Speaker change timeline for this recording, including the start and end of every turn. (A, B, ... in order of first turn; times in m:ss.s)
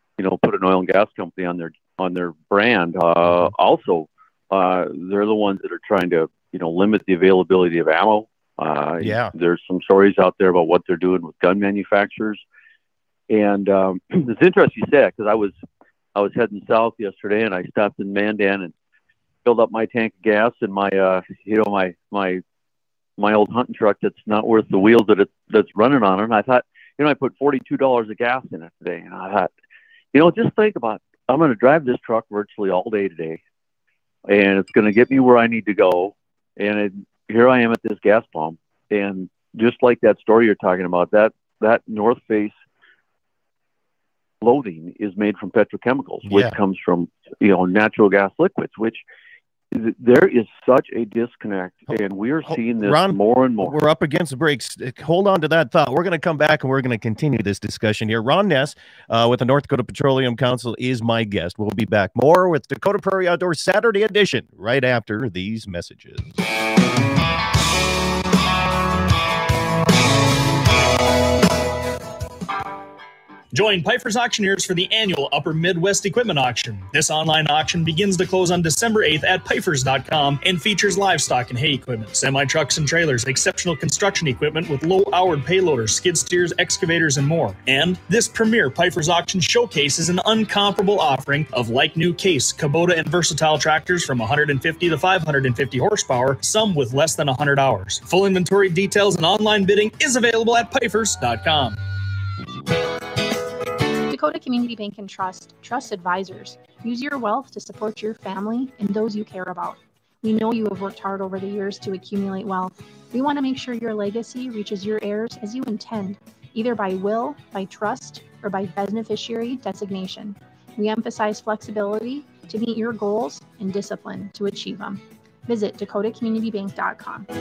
0:00.2-0:12.4 A
0:09.0-0:09.3 B
0:13.3-0:15.5 A
0:16.2-0:18.7 A
0:19.4-0:22.4 A
0:23.2-0:29.5 A
0:30.1-0:33.4 A
0:34.3-0:42.6 A
0:44.4-0:49.0 A
0:46.3-0:46.6 B
0:49.7-0:53.8 A
0:52.5-1:06.4 B
1:13.5-1:41.8 C
1:44.1-2:07.3 D